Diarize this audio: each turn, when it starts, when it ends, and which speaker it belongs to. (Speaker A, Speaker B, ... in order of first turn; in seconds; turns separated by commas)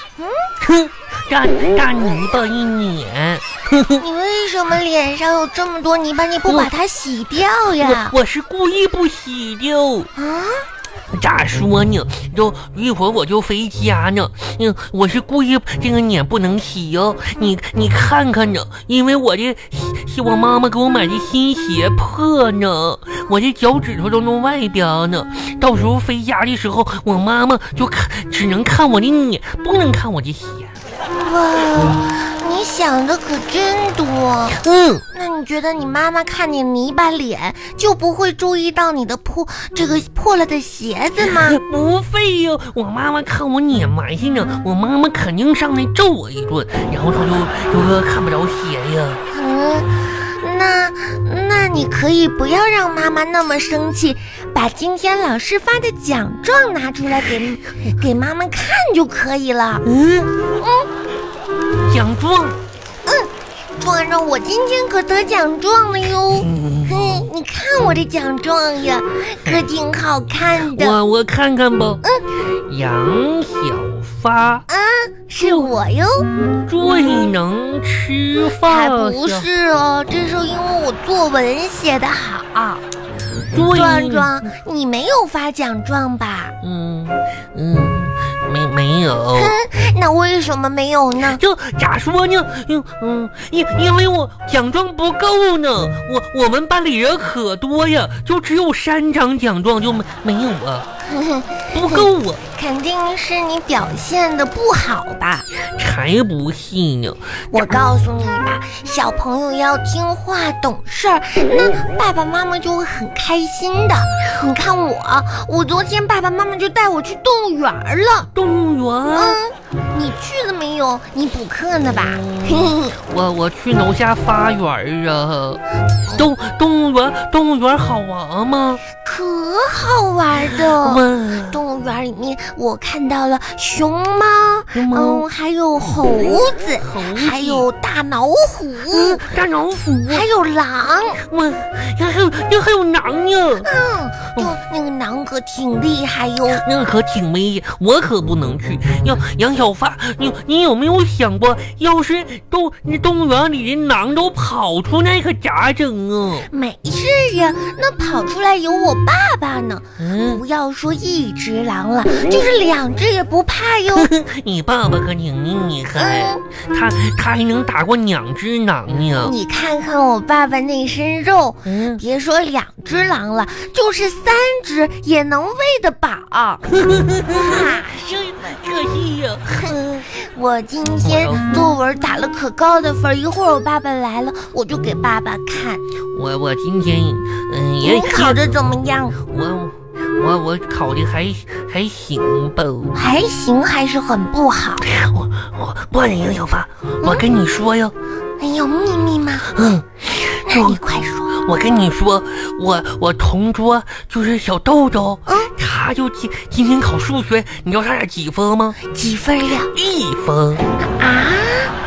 Speaker A: 0.2-0.5, Speaker B: 0.6-4.0, Speaker A: 4.0-8.2, Speaker B: 7.8-10.1, Speaker A: 10.2-10.7, Speaker B: 11.1-30.7, Speaker A: 31.2-34.6, Speaker B: 34.6-35.0, Speaker A: 35.1-41.6, Speaker B: 41.2-49.2, Speaker A: 49.3-59.9, Speaker B: 59.9-60.3, Speaker A: 60.6-60.9, Speaker B: 61.9-62.6, Speaker A: 63.1-71.0, Speaker B: 66.3-67.3, Speaker B: 70.6-72.0, Speaker B: 72.7-74.7, Speaker A: 74.7-76.3, Speaker B: 75.4-75.8, Speaker B: 76.6-79.5, Speaker A: 78.6-82.8, Speaker B: 83.5-84.5, Speaker A: 83.6-86.5, Speaker B: 86.6-89.5, Speaker A: 89.3-91.4, Speaker B: 91.3-100.9, Speaker A: 101.1-105.5, Speaker B: 101.7-102.4, Speaker B: 105.8-107.7, Speaker A: 107.5-118.3, Speaker B: 118.3-119.4, Speaker A: 119.1-123.0, Speaker B: 121.9-125.6, Speaker B: 126.1-128.8, Speaker A: 129.0-139.2, Speaker B: 130.4-131.6, Speaker B: 134.7-135.3, Speaker B: 136.8-137.7, Speaker B: 138.9-140.3, Speaker A: 140.1-141.2, Speaker B: 141.2-143.7, Speaker A: 143.6-146.6, Speaker B: 146.5-156.5, Speaker A: 156.5-164.1, Speaker B: 160.0-160.4, Speaker B: 163.9-169.3, Speaker A: 165.9-166.4, Speaker A: 169.2-176.7, Speaker B: 171.7-172.0, Speaker B: 176.7-180.0, Speaker A: 177.2-177.9, Speaker A: 179.6-185.8, Speaker B: 181.0-181.6, Speaker B: 186.1-188.6, Speaker A: 187.8-189.2, Speaker B: 189.2-193.0, Speaker A: 192.9-194.9, Speaker B: 194.8-197.9, Speaker A: 198.4-199.5, Speaker B: 199.5-200.8, Speaker A: 200.5-201.4, Speaker B: 201.3-208.8, Speaker A: 205.3-205.5, Speaker A: 208.9-209.7, Speaker B: 209.7-210.7, Speaker A: 210.8-211.7